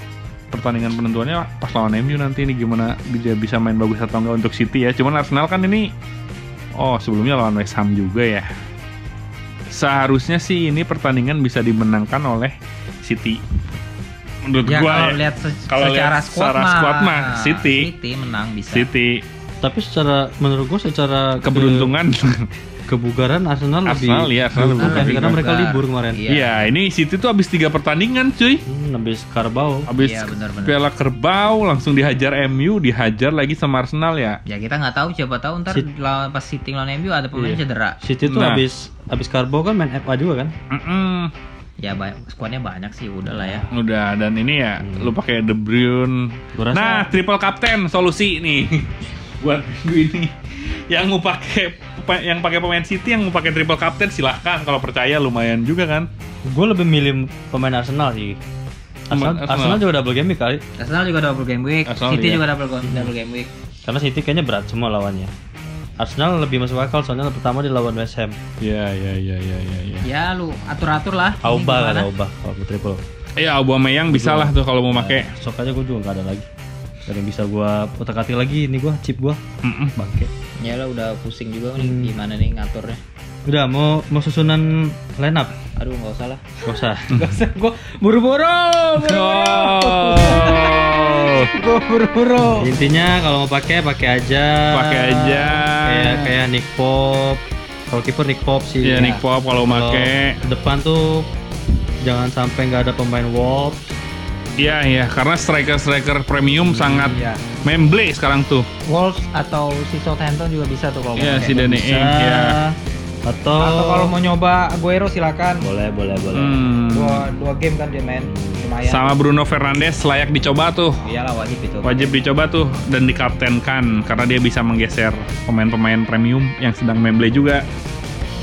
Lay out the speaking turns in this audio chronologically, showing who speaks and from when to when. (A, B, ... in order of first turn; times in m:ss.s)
0:00.5-0:05.9 A
0:06.8-0:08.5 A
0:09.7-0:13.4 A
0:14.4-0:17.9 A
0:14.6-0:18.9 B
0:18.7-0:19.2 A
0:19.6-0:21.9 C
0:21.4-0:22.5 A
0:22.9-0:26.2 C
0:23.9-0:25.4 A
0:24.8-0:26.7 B
0:26.3-0:28.6 A
0:28.6-0:29.9 C
0:29.9-0:34.4 A
0:30.0-0:30.8 B
0:34.5-0:38.0 B
0:37.3-0:40.5 C
0:38.3-0:38.6 A
0:40.7-0:41.3 A
0:41.8-0:43.7 B
0:43.3-0:43.6 C
0:43.7-0:56.1 A
0:44.8-0:45.1 C
0:46.5-0:47.1 C
0:56.4-0:58.4 C
0:59.1-1:00.6 C
0:59.1-0:59.8 A
1:00.8-1:03.5 B
1:01.9-1:02.4 A
1:02.8-1:03.1 C
1:03.8-1:05.3 C
1:06.0-1:08.4 C
1:08.6-1:10.1 A
1:10.0-1:12.1 B
1:11.4-1:13.0 C
1:13.4-1:15.3 A
1:14.1-1:16.5 C
1:17.1-1:19.4 C
1:19.6-1:20.0 A
1:20.0-1:20.3 C
1:20.6-1:23.0 B
1:21.8-1:22.1 C
1:23.5-1:25.5 C
1:25.8-1:32.7 B
1:26.6-1:27.3 C
1:29.0-1:31.5 A
1:32.4-1:41.3 C
1:34.7-1:36.4 A
1:38.8-1:40.4 A
1:42.0-1:44.0 C
1:44.6-1:48.7 A
1:46.8-1:47.4 B
1:48.9-1:52.6 B
1:51.2-1:52.6 A
1:51.4-1:52.7 C
1:53.2-1:54.2 C
1:53.6-1:55.7 B
1:55.6-1:56.6 C
1:56.3-1:57.3 A
1:56.9-1:59.1 B
1:58.2-1:58.6 C
1:58.8-2:01.0 A
2:01.0-2:02.2 B
2:01.8-2:07.6 A